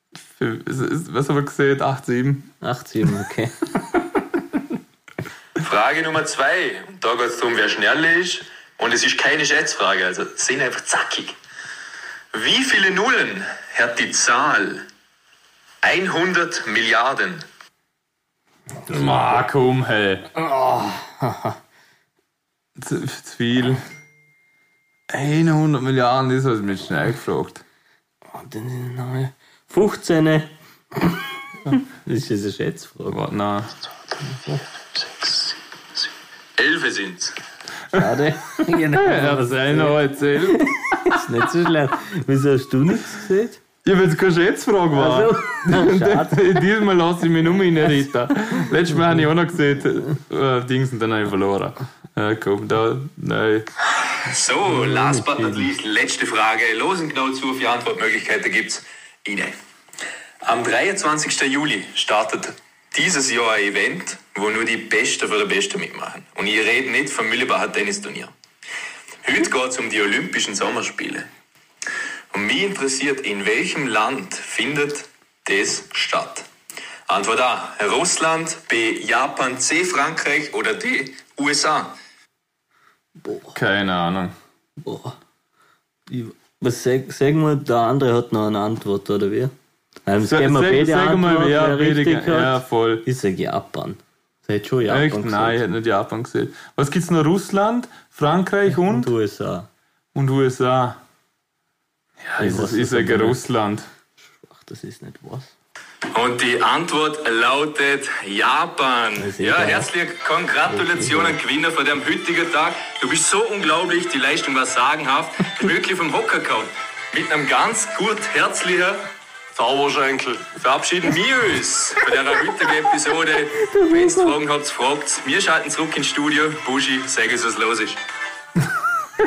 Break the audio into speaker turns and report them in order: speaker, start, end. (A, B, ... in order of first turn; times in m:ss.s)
0:00.3-0:02.5 A
0:02.6-0:04.0 B
0:05.6-0:11.3 C
0:12.3-0:14.8 C
0:15.8-0:17.4 C
0:18.9-0:20.3 A
0:18.9-0:19.1 B
0:20.4-0:21.6 B
0:22.8-0:23.8 A
0:25.1-0:27.6 A
0:28.3-0:33.2 B
0:33.1-0:33.7 A
0:34.3-0:34.6 B
0:36.6-0:37.4 C
0:37.9-0:43.6 B
0:38.7-0:41.3 A
0:43.8-0:53.7 A
0:44.9-0:46.6 B
0:54.0-0:59.6 C
0:54.8-0:55.6 B
1:00.4-1:08.3 C
1:09.2-1:11.3 C
1:12.3-1:16.4 C
1:17.1-1:21.9 C
1:23.2-1:23.6 B
1:23.5-1:24.3 A
1:24.8-1:25.2 B
1:26.1-1:29.5 B
1:30.0-1:35.6 B
1:30.2-1:33.0 A
1:34.9-1:39.1 A
1:38.7-1:39.7 B
1:40.1-1:41.0 A
1:42.2-1:43.9 A
1:42.4-1:43.4 B
1:44.4-1:45.5 B
1:46.1-2:08.0 C
1:49.2-1:49.9 B
1:50.6-1:51.4 B
2:03.6-2:04.4 B